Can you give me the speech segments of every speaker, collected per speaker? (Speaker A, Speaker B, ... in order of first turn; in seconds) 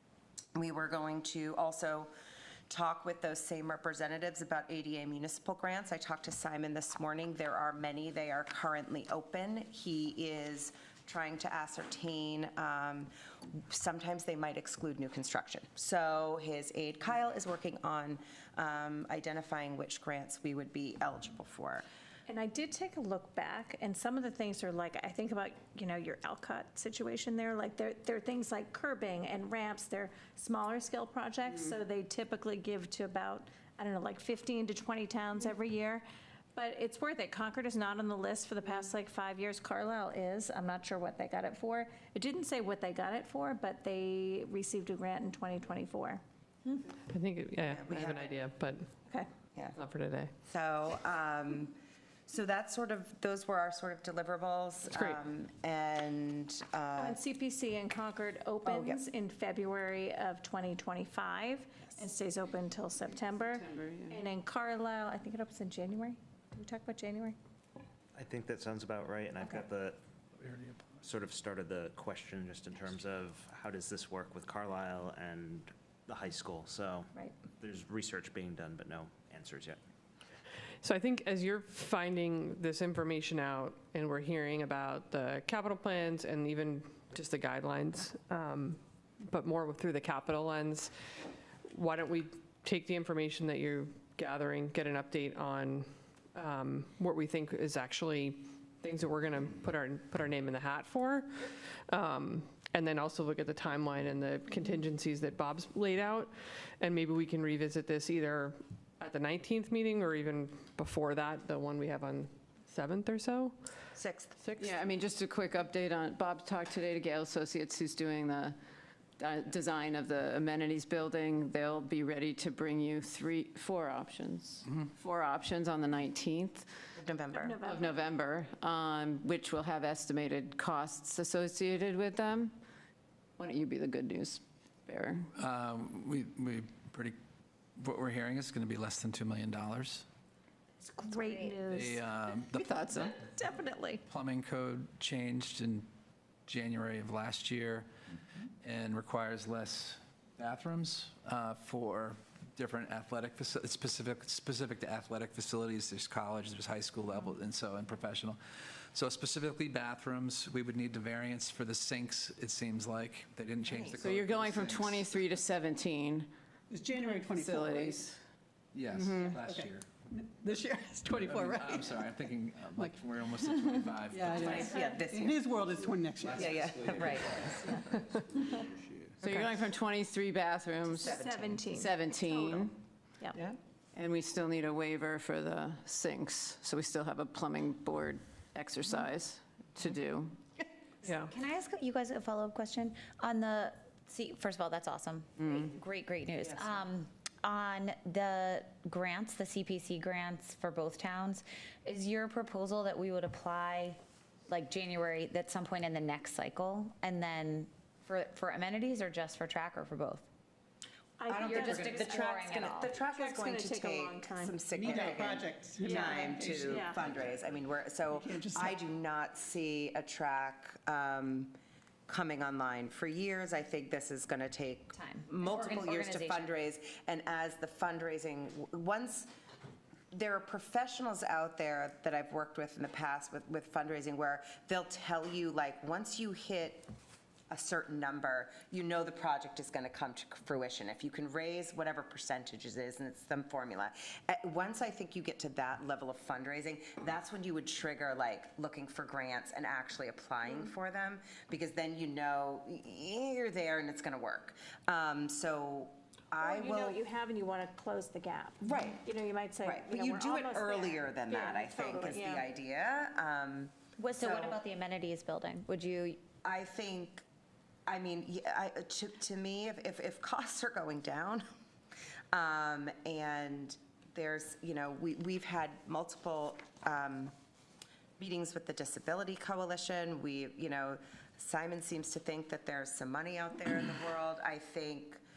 Speaker A: 0.6-2.1, 2.7-13.1, 13.7-21.9, 47.6-48.4, 50.5-57.2, 58.6-59.0, 114.0-114.4, 127.0-127.6, 174.4-175.5, 176.3-177.8, 181.0-181.5, 211.3-221.6, 222.1-229.3, 230.1-236.9, 237.5-257.0, 258.6-259.1, 259.6-264.6, 266.4-267.2, 267.9-271.5, 272.3-277.3, 278.2-285.2
Speaker B: 22.3-46.2, 57.0-67.4, 127.4-128.0, 140.8-142.0, 143.2-144.0, 181.0-183.4, 211.2-212.2, 213.1-214.6, 216.7-217.0, 256.4-262.5
Speaker C: 47.1-48.9, 49.8-50.3, 54.9-55.2, 80.8-90.9, 91.7-113.6, 114.4-114.7, 179.2-179.5, 191.1-191.3
Speaker D: 63.8-64.1, 114.6-118.6, 119.2-126.7, 127.7-132.6, 133.4-135.3, 142.7-143.2, 164.0-166.3, 167.2-168.2, 169.1-169.4, 179.2-181.1, 181.7-182.7, 183.9-190.4
Speaker E: 68.2-70.0, 71.0-79.8
Speaker F: 70.4-70.7, 135.4-137.2, 137.8-140.1, 141.7-142.8, 144.1-145.9, 146.5-147.9, 148.6-158.4, 158.9-165.2, 168.7-169.9, 171.2-174.9, 176.2-177.9
Speaker G: 141.1-141.6, 191.1-210.3, 211.3-213.0, 224.9-226.5, 264.0-266.2
Speaker H: 166.7-168.1, 168.9-172.0, 174.1-177.2, 214.7-217.4, 218.1-218.8